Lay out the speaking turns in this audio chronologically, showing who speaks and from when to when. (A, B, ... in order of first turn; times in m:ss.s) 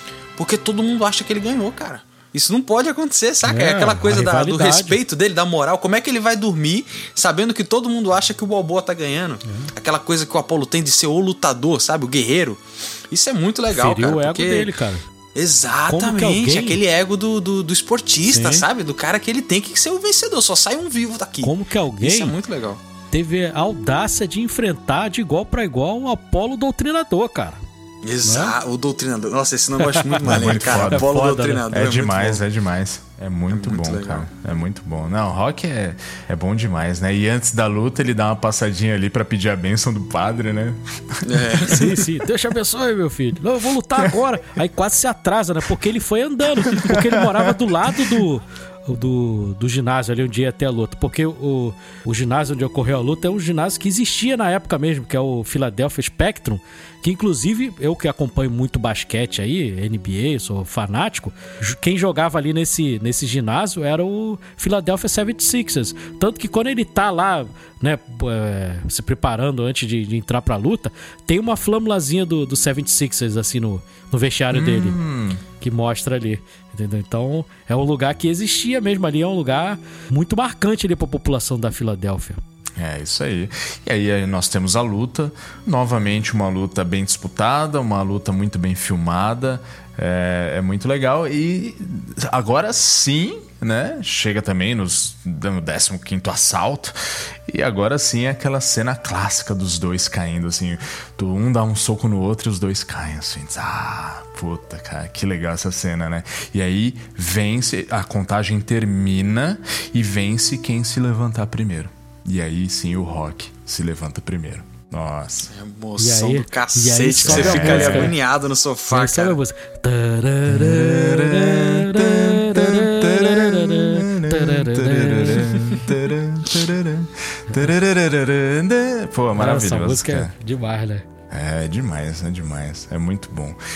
0:00.4-0:14.7 A
0:03.5-0:05.0 B
0:13.7-0:15.0 B
0:15.4-0:22.8 A
0:15.9-0:16.8 B
0:18.3-0:18.7 B
0:21.4-0:22.4 B
0:23.1-0:27.6 B
0:28.0-0:32.4 A
0:28.2-0:28.5 B
0:29.8-0:31.7 B
0:30.2-0:31.1 C
0:31.7-0:41.4 C
0:33.5-0:34.3 A
0:41.2-0:42.0 A
0:41.6-1:15.0 B
0:46.7-0:48.1 C
1:14.5-1:15.4 C
1:15.6-1:22.4 B
1:22.8-1:55.5 C
1:55.5-1:59.4 A
1:56.0-1:58.1 B
1:57.2-1:58.1 C
1:58.9-2:05.5 B
2:00.5-2:10.3 C
2:09.4-2:11.1 B
2:11.3-2:13.6 C